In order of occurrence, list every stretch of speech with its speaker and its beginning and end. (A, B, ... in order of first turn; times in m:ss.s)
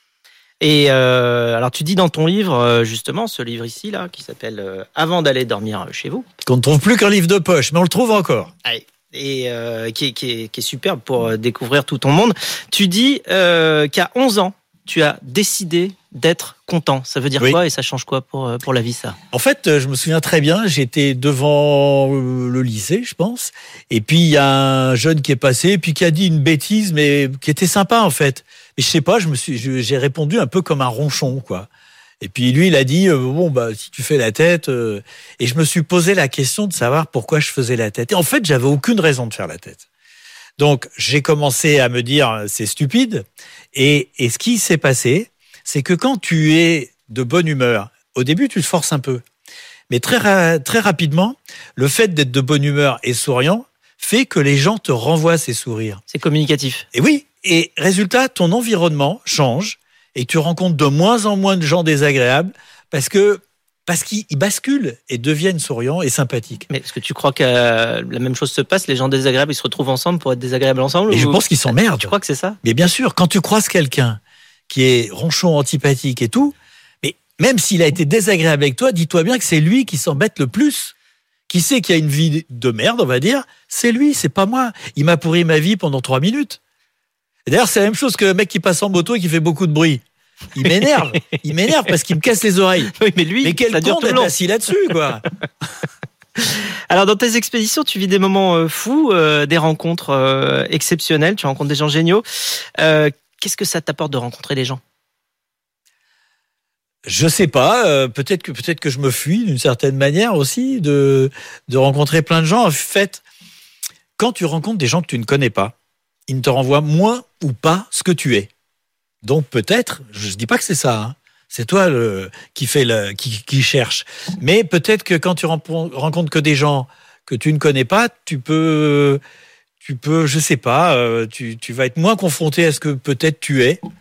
0:00.6-0:06.3 A
0:06.5-0:08.5 B
0:08.6-0:19.2 A
0:19.3-0:31.7 B
0:32.2-0:39.8 B
0:40.6-0:49.2 B
0:49.9-0:56.0 B
0:56.1-0:56.9 A
0:56.9-1:06.7 B
1:06.7-1:12.6 A
1:11.1-1:21.0 B
1:21.5-1:26.6 B
1:27.5-1:30.0 B
1:30.6-1:35.2 B
1:32.9-1:34.3 A
1:36.4-1:44.8 A
1:47.0-1:53.2 B
1:54.2-1:55.8 B
1:56.3-1:58.5 B
1:59.2-2:09.2 B
2:09.8-2:13.8 B